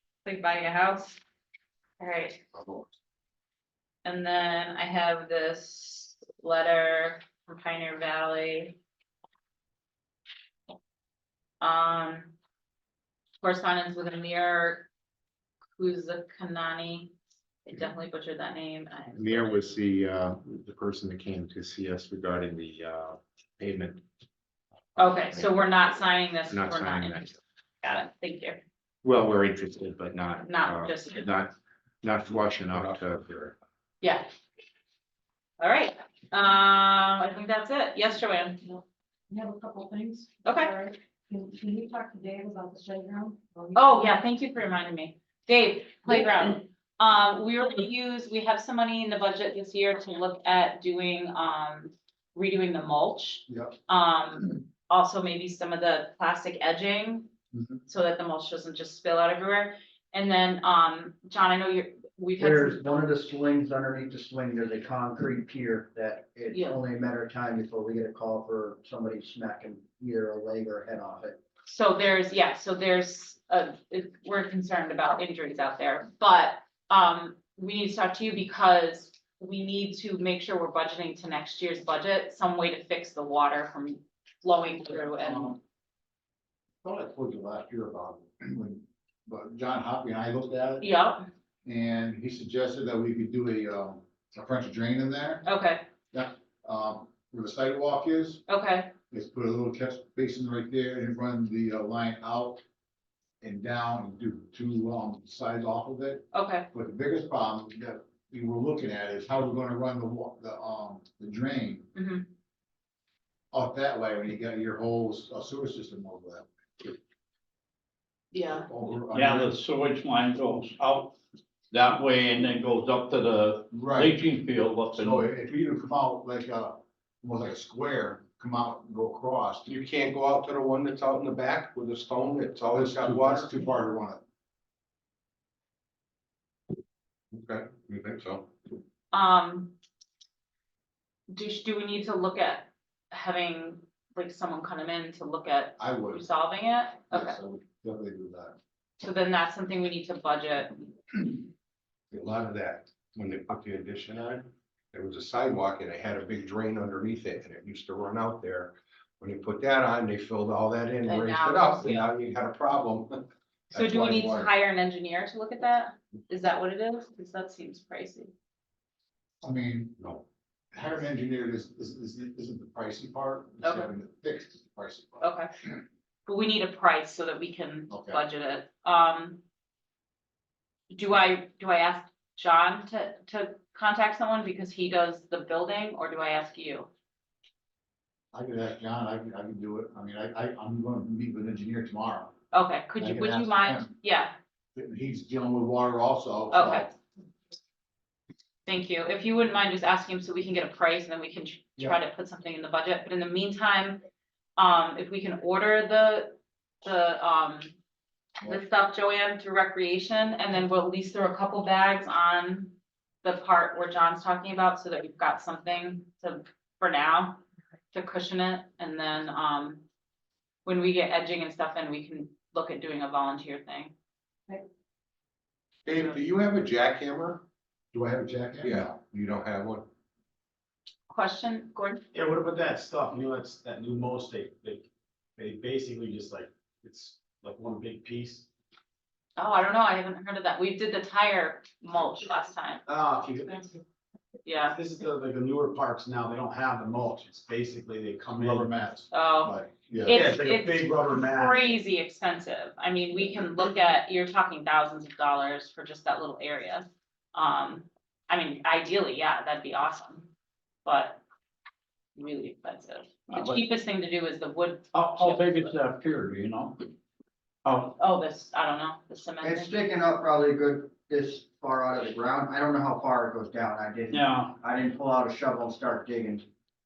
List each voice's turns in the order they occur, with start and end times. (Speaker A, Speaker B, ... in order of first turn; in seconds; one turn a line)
Speaker A: 0.2-1.2
Speaker A: 2.0-2.4
Speaker A: 4.0-8.8
Speaker A: 11.6-12.3
Speaker A: 13.4-14.9
Speaker A: 15.8-17.1
Speaker A: 17.6-19.6
Speaker B: 19.1-24.0
Speaker A: 25.0-28.6
Speaker B: 25.0-27.4
Speaker B: 29.0-33.5
Speaker A: 30.4-31.3
Speaker A: 35.6-38.6
Speaker C: 39.3-44.1
Speaker A: 40.4-40.7
Speaker A: 43.7-57.3
Speaker A: 57.9-62.9
Speaker D: 62.4-71.4
Speaker A: 66.5-66.8
Speaker A: 71.7-85.6
Speaker E: 86.8-90.9
Speaker A: 90.8-91.2
Speaker E: 91.6-95.4
Speaker A: 95.4-95.8
Speaker E: 96.1-98.4
Speaker A: 98.5-98.9
Speaker E: 99.1-102.6
Speaker E: 103.4-111.9
Speaker A: 106.3-106.7
Speaker A: 111.9-112.3
Speaker E: 113.5-117.0
Speaker A: 118.3-118.7
Speaker E: 118.5-119.5
Speaker F: 119.1-121.1
Speaker F: 121.7-125.3
Speaker E: 123.7-129.7
Speaker G: 129.7-133.5
Speaker E: 132.7-134.2
Speaker G: 137.3-138.5
Speaker A: 139.1-139.7
Speaker A: 141.3-147.4
Speaker E: 145.8-146.2
Speaker E: 147.1-148.6
Speaker A: 149.0-150.9
Speaker G: 152.1-163.2
Speaker A: 161.1-162.1
Speaker E: 163.7-164.5
Speaker A: 163.7-168.3
Speaker E: 169.4-170.2
Speaker E: 170.7-175.2
Speaker A: 173.6-173.9
Speaker A: 175.2-175.5
Speaker A: 176.2-179.4
Speaker E: 177.9-178.2
Speaker A: 180.9-186.9
Speaker E: 188.3-192.3
Speaker A: 192.5-194.3
Speaker E: 193.0-193.9
Speaker E: 194.7-196.9
Speaker A: 196.5-196.9
Speaker A: 198.7-204.0
Speaker A: 204.6-207.7
Speaker A: 208.4-217.4
Speaker A: 217.9-219.8
Speaker A: 220.6-223.9
Speaker G: 225.8-227.4
Speaker E: 227.9-228.9
Speaker G: 228.6-229.8
Speaker A: 231.1-232.0
Speaker H: 232.1-234.8
Speaker H: 235.4-238.4
Speaker A: 239.4-242.8
Speaker H: 242.8-243.8
Speaker A: 244.4-244.8
Speaker H: 244.7-248.8
Speaker E: 248.4-250.3
Speaker A: 249.1-249.5
Speaker A: 250.1-260.3
Speaker H: 250.1-251.7
Speaker A: 260.8-261.2
Speaker A: 262.1-265.7
Speaker F: 263.3-263.6
Speaker F: 264.9-266.8
Speaker F: 267.6-267.9
Speaker A: 268.0-269.7
Speaker D: 269.4-276.4
Speaker F: 274.1-274.5